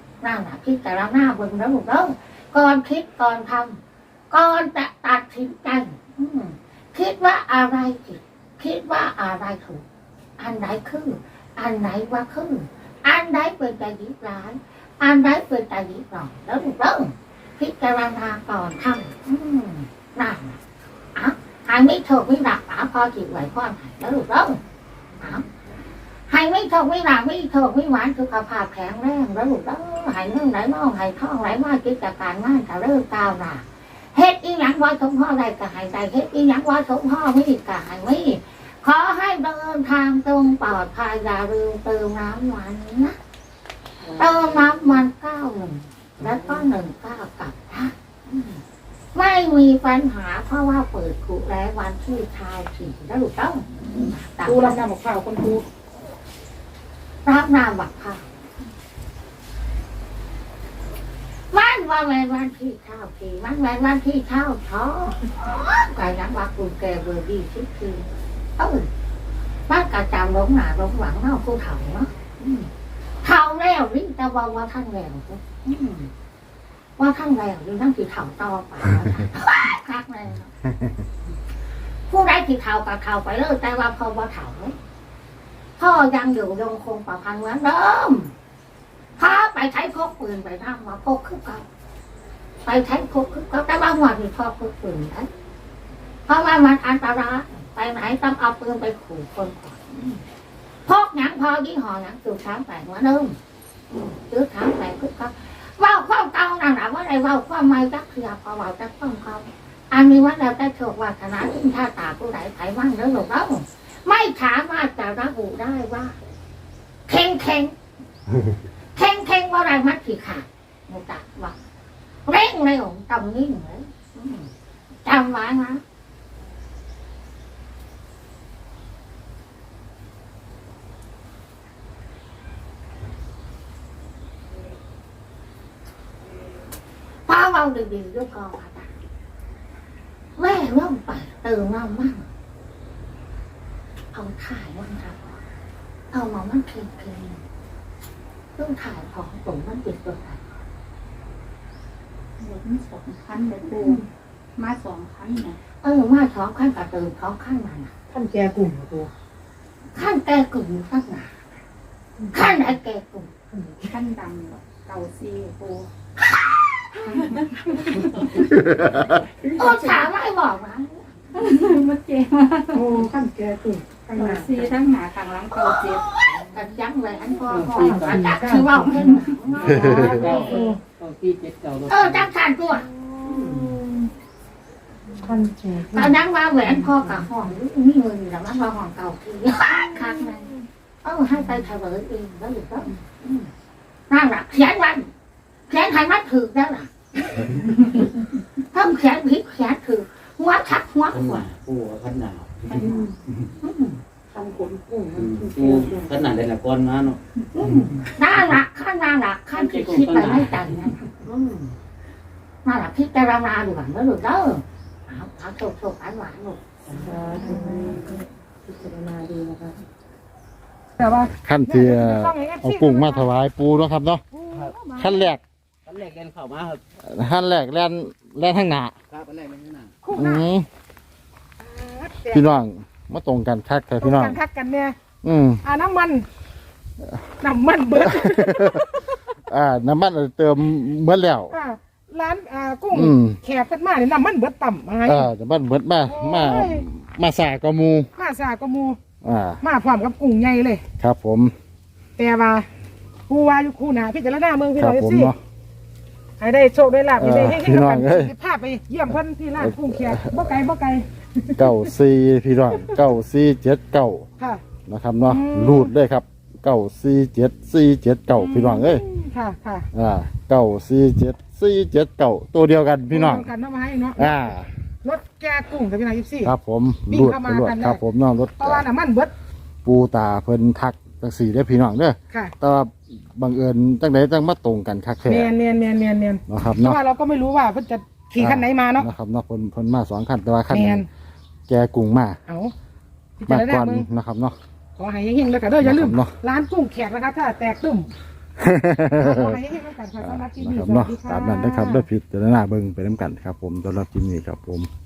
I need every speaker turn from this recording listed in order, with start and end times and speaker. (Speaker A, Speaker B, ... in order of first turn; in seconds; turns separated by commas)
Speaker A: 0.2-3.8, Speaker A: 4.3-9.8, Speaker A: 10.4-20.6, Speaker A: 21.1-24.6, Speaker A: 25.2-25.4, Speaker A: 26.3-43.2, Speaker B: 44.0-44.6, Speaker A: 44.2-48.6, Speaker A: 49.1-54.8, Speaker C: 54.4-55.6, Speaker A: 57.3-58.3, Speaker A: 61.5-68.1, Speaker A: 68.6-68.9, Speaker A: 69.7-72.7, Speaker A: 73.2-76.1, Speaker A: 77.0-80.5, Speaker A: 82.1-84.8, Speaker A: 85.8-88.3, Speaker A: 89.2-91.7, Speaker A: 92.7-95.3, Speaker A: 96.3-100.2, Speaker A: 100.9-103.4, Speaker A: 103.9-116.2, Speaker A: 117.1-117.8, Speaker A: 119.0-121.6, Speaker A: 122.3-124.5, Speaker A: 125.0-125.8, Speaker A: 137.3-138.9, Speaker A: 140.4-142.3, Speaker A: 144.1-145.4, Speaker A: 146.1-147.4, Speaker A: 148.6-150.4, Speaker D: 152.4-154.0, Speaker D: 154.6-155.6, Speaker A: 155.8-157.9, Speaker C: 158.1-159.1, Speaker A: 159.9-161.3, Speaker C: 162.2-162.7, Speaker A: 162.3-163.3, Speaker C: 163.5-163.9, Speaker D: 163.8-165.9, Speaker A: 166.4-166.8, Speaker C: 167.1-168.3, Speaker D: 167.2-168.4, Speaker C: 169.4-170.1, Speaker A: 169.6-171.2, Speaker D: 171.3-173.1, Speaker C: 172.7-174.7, Speaker D: 174.2-176.1, Speaker A: 175.6-180.7, Speaker D: 177.5-178.3, Speaker C: 177.5-180.8, Speaker E: 177.5-178.2, Speaker F: 179.7-180.2, Speaker B: 179.7-180.7, Speaker E: 180.1-182.3, Speaker A: 181.9-182.9, Speaker C: 182.8-184.1, Speaker C: 185.2-187.6, Speaker A: 185.9-190.5, Speaker C: 189.7-190.6, Speaker A: 191.0-193.5, Speaker A: 194.1-195.1, Speaker A: 195.7-197.4, Speaker A: 198.7-201.5, Speaker G: 201.1-203.0, Speaker C: 202.7-203.2, Speaker A: 203.6-204.0, Speaker C: 204.3-206.1, Speaker G: 205.2-207.2, Speaker A: 207.5-211.8, Speaker E: 209.5-211.0, Speaker A: 212.7-216.6, Speaker E: 216.9-217.1, Speaker B: 217.0-219.8, Speaker C: 217.2-218.1, Speaker C: 221.0-223.3, Speaker F: 221.4-224.2, Speaker C: 224.3-225.3, Speaker F: 224.9-225.4, Speaker G: 225.9-226.8, Speaker F: 227.1-228.9, Speaker G: 229.1-229.9, Speaker C: 230.0-230.5, Speaker F: 230.1-230.7, Speaker C: 231.6-232.4, Speaker F: 232.3-234.4, Speaker C: 234.0-234.9, Speaker F: 235.2-235.6, Speaker C: 235.6-236.3, Speaker C: 237.4-239.1, Speaker F: 238.0-238.9, Speaker F: 239.5-241.5, Speaker C: 241.5-245.3, Speaker F: 242.9-243.4, Speaker F: 245.1-248.1, Speaker C: 246.1-246.9, Speaker C: 248.2-249.0, Speaker F: 249.2-249.6, Speaker C: 249.6-250.8, Speaker F: 251.0-251.5, Speaker C: 252.2-252.7, Speaker C: 253.3-255.3, Speaker F: 254.8-255.4, Speaker C: 256.4-261.6, Speaker F: 257.2-258.3, Speaker F: 259.6-260.4, Speaker F: 261.6-264.3, Speaker F: 264.9-269.1, Speaker C: 265.3-265.9, Speaker C: 268.4-269.9, Speaker F: 269.9-273.5, Speaker C: 273.1-274.4, Speaker F: 274.2-274.7, Speaker C: 275.0-276.5, Speaker F: 276.4-278.9, Speaker C: 277.1-278.0, Speaker C: 278.6-279.3, Speaker F: 279.9-285.5, Speaker C: 285.3-289.1, Speaker F: 286.5-287.0, Speaker F: 288.4-291.1, Speaker C: 290.7-291.1, Speaker F: 291.7-292.4, Speaker C: 292.5-292.7, Speaker C: 293.4-294.1, Speaker F: 293.5-294.6, Speaker C: 295.0-298.1, Speaker F: 295.8-296.4, Speaker F: 298.6-299.6, Speaker C: 299.2-302.1, Speaker F: 300.2-304.9